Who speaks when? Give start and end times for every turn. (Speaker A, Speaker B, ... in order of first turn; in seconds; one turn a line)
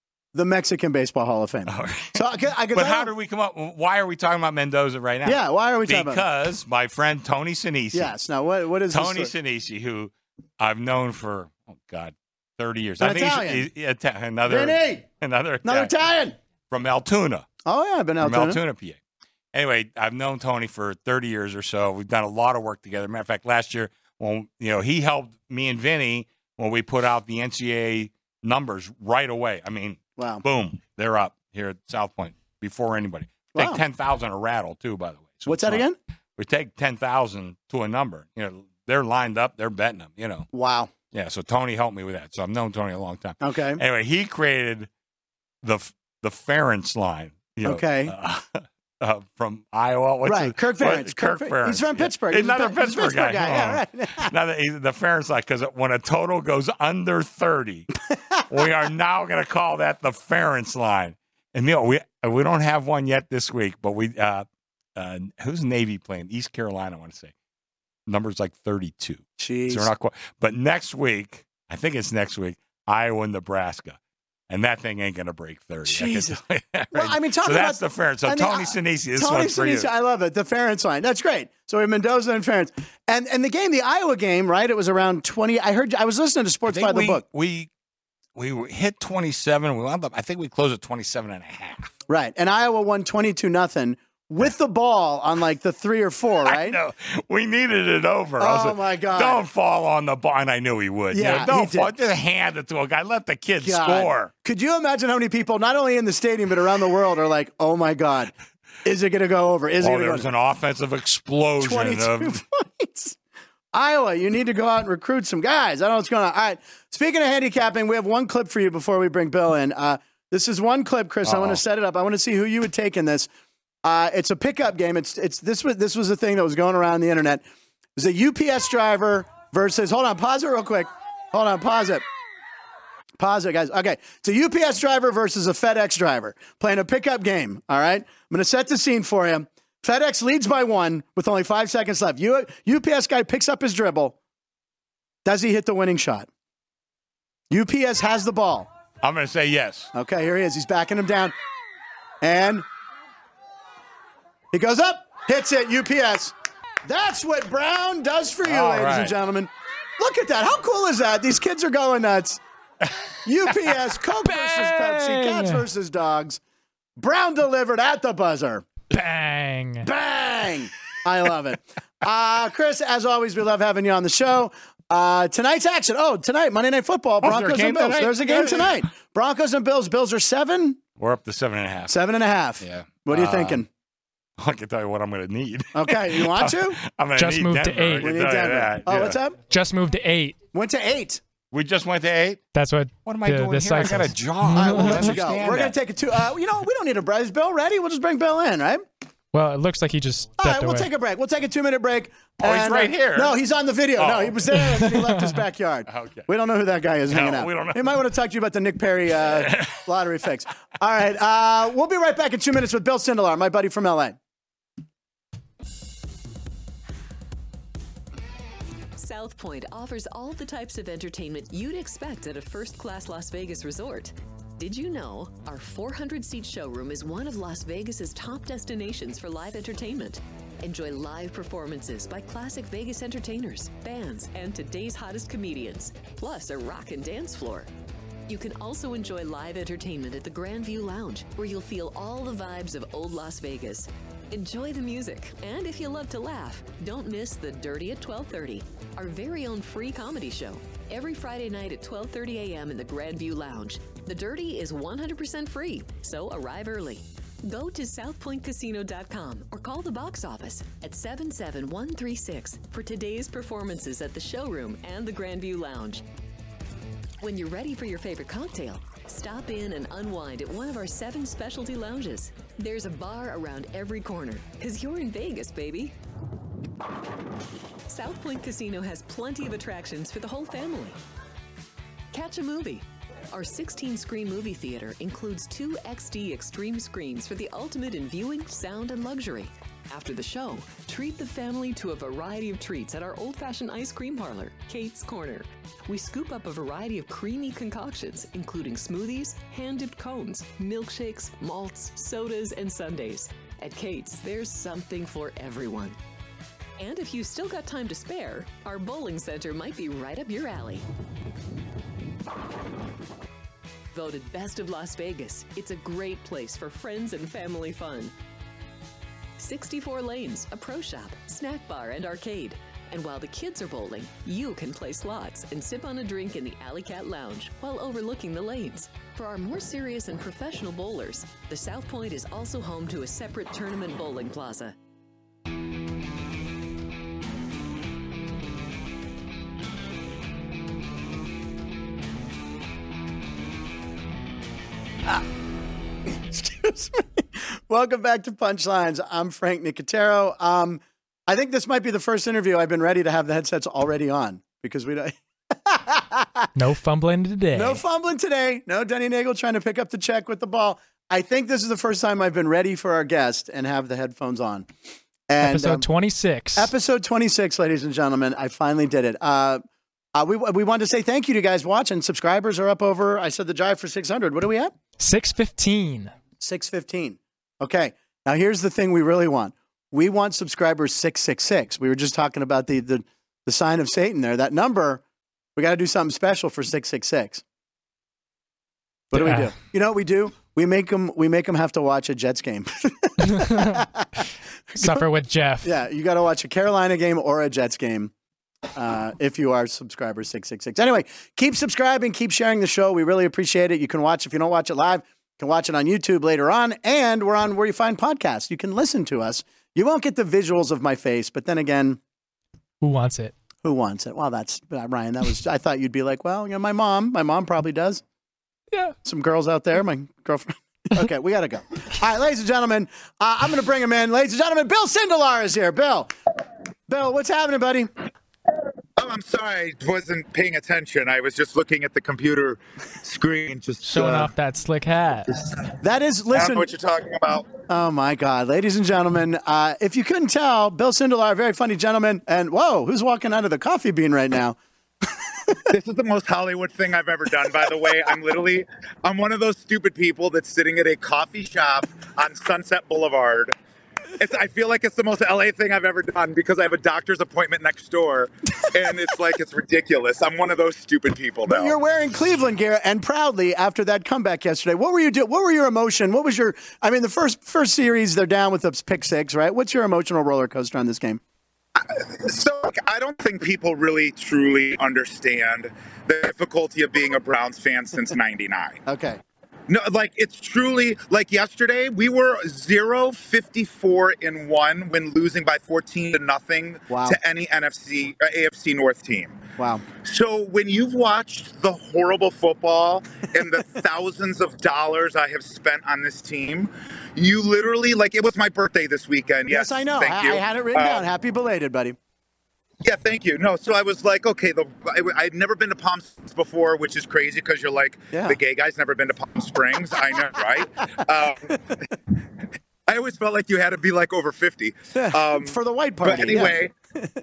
Speaker A: 0.3-3.1
Speaker B: 1.7-8.1
Speaker A: 5.2-6.2
Speaker A: 7.9-9.3
Speaker B: 8.9-15.9
Speaker A: 13.0-13.7
Speaker A: 14.4-15.0
Speaker A: 15.6-16.4
Speaker B: 16.7-17.5
Speaker A: 17.6-18.6
Speaker B: 18.2-19.0
Speaker B: 19.5-35.9
Speaker A: 30.2-30.4
Speaker A: 33.5-33.8
Speaker A: 35.5-36.0
Speaker B: 36.4-40.5
Speaker A: 40.5-40.9
Speaker B: 41.1-44.9
Speaker A: 43.4-43.8
Speaker B: 45.6-57.9
Speaker A: 47.6-48.1
Speaker A: 50.2-54.3
Speaker A: 58.2-58.4
Speaker B: 58.5-67.3
Speaker B: 68.1-74.0
Speaker A: 69.4-69.9
Speaker B: 74.5-79.9
Speaker A: 75.8-76.4
Speaker A: 76.9-87.2
Speaker B: 86.7-87.7
Speaker B: 88.3-91.9
Speaker A: 92.1-96.8
Speaker B: 96.4-104.3
Speaker A: 98.4-99.4
Speaker A: 101.1-101.9
Speaker A: 103.6-108.3
Speaker A: 108.8-110.3
Speaker B: 109.8-112.4
Speaker A: 111.6-113.2
Speaker A: 113.7-123.3
Speaker B: 121.2-121.6
Speaker A: 123.8-127.4
Speaker A: 128.0-132.0
Speaker A: 133.2-144.2
Speaker A: 145.2-146.3
Speaker A: 147.5-148.7
Speaker B: 149.0-149.9
Speaker A: 149.9-151.3
Speaker A: 152.2-152.7
Speaker A: 154.5-162.4
Speaker B: 158.4-159.1
Speaker A: 163.2-166.4
Speaker C: 164.3-165.6
Speaker A: 167.0-168.6
Speaker C: 168.9-169.9
Speaker A: 169.8-180.8
Speaker B: 177.2-178.8
Speaker B: 181.0-182.0
Speaker A: 181.9-183.7
Speaker B: 182.6-183.6
Speaker B: 184.4-189.2
Speaker A: 185.7-186.8
Speaker C: 187.2-188.1
Speaker A: 188.0-189.4
Speaker C: 189.5-190.3
Speaker A: 190.5-191.2
Speaker B: 191.5-192.4
Speaker C: 192.5-195.1
Speaker B: 193.1-195.8
Speaker A: 194.5-198.8
Speaker C: 199.3-200.9
Speaker A: 200.4-214.2
Speaker B: 202.4-203.4
Speaker B: 203.9-204.9
Speaker C: 204.6-205.0
Speaker B: 205.9-206.3
Speaker B: 207.1-208.0
Speaker B: 209.2-209.8
Speaker D: 218.9-237.7
Speaker D: 238.3-266.0
Speaker D: 267.2-275.9
Speaker D: 277.9-281.0
Speaker D: 282.1-306.0
Speaker D: 306.8-310.8
Speaker D: 313.9-318.1
Speaker D: 319.4-334.8
Speaker A: 346.1-356.5
Speaker C: 356.5-357.8
Speaker A: 357.5-364.7
Speaker A: 365.3-365.9
Speaker C: 365.4-366.7
Speaker A: 366.6-369.6
Speaker A: 370.1-374.7
Speaker C: 375.0-376.1
Speaker A: 376.4-385.0
Speaker A: 385.6-387.4
Speaker A: 389.1-395.1
Speaker C: 389.1-389.5
Speaker C: 393.2-393.8
Speaker C: 394.8-395.7
Speaker A: 395.6-398.1
Speaker A: 398.7-412.0
Speaker C: 412.8-413.3
Speaker A: 413.6-418.0
Speaker A: 419.0-426.1
Speaker A: 426.9-427.9
Speaker E: 429.0-434.3
Speaker C: 433.8-435.3
Speaker E: 435.4-435.7
Speaker A: 435.8-436.7
Speaker E: 436.3-437.5
Speaker A: 437.7-444.6
Speaker E: 445.7-453.5
Speaker E: 454.2-461.8
Speaker A: 461.4-471.2
Speaker E: 471.8-478.8
Speaker A: 478.9-479.2
Speaker E: 479.7-501.1
Speaker A: 486.9-487.2
Speaker A: 489.6-489.8
Speaker A: 499.5-501.9
Speaker E: 502.8-511.6
Speaker A: 508.1-508.4
Speaker E: 512.9-516.7
Speaker A: 514.9-517.1